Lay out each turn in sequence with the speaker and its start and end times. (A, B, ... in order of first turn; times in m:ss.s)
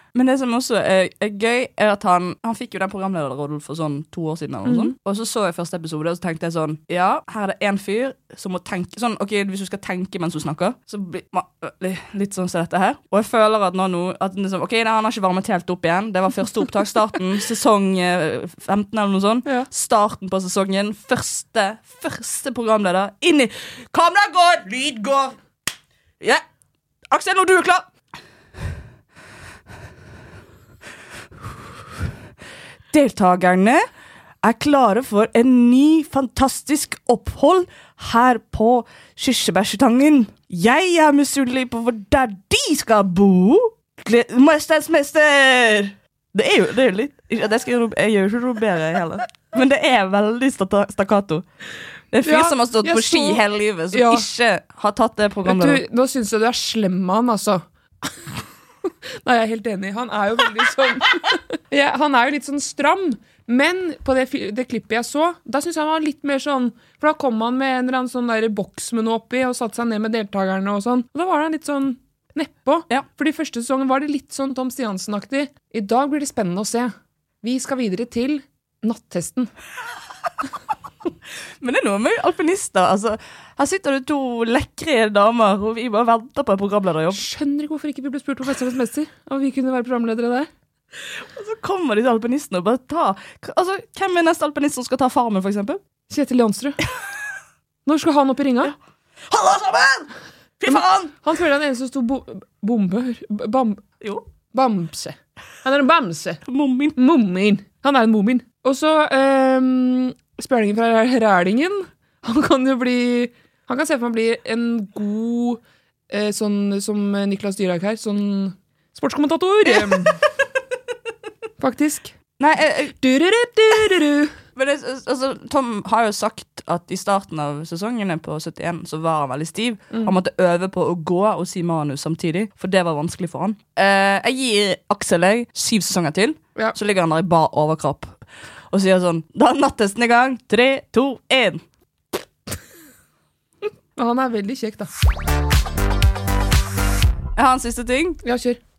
0:00.1-0:25.4 A
0:04.6-0:04.9 B
0:27.1-0:27.9 A
0:32.9-0:33.9 A
0:34.4-0:51.4 A
0:52.1-0:55.8 A
0:52.2-0:54.3 B
0:55.4-0:58.3 B
0:59.2-1:19.5 B
1:21.6-1:27.2 A
1:27.1-1:30.5 B
1:31.2-1:35.8 A
1:36.1-1:36.8 B
1:37.9-1:38.7 B
1:39.3-1:41.2 A
1:40.7-1:43.8 B
1:44.5-1:46.4 B
1:46.4-1:47.0 A
1:47.0-2:00.2 B
2:01.6-2:02.1 B
2:02.4-2:03.0 A
2:03.0-2:04.4 B
2:04.6-2:18.2 A
2:18.7-2:21.6 A
2:24.0-2:24.9 B
2:27.4-2:28.2 A
2:28.2-2:28.6 B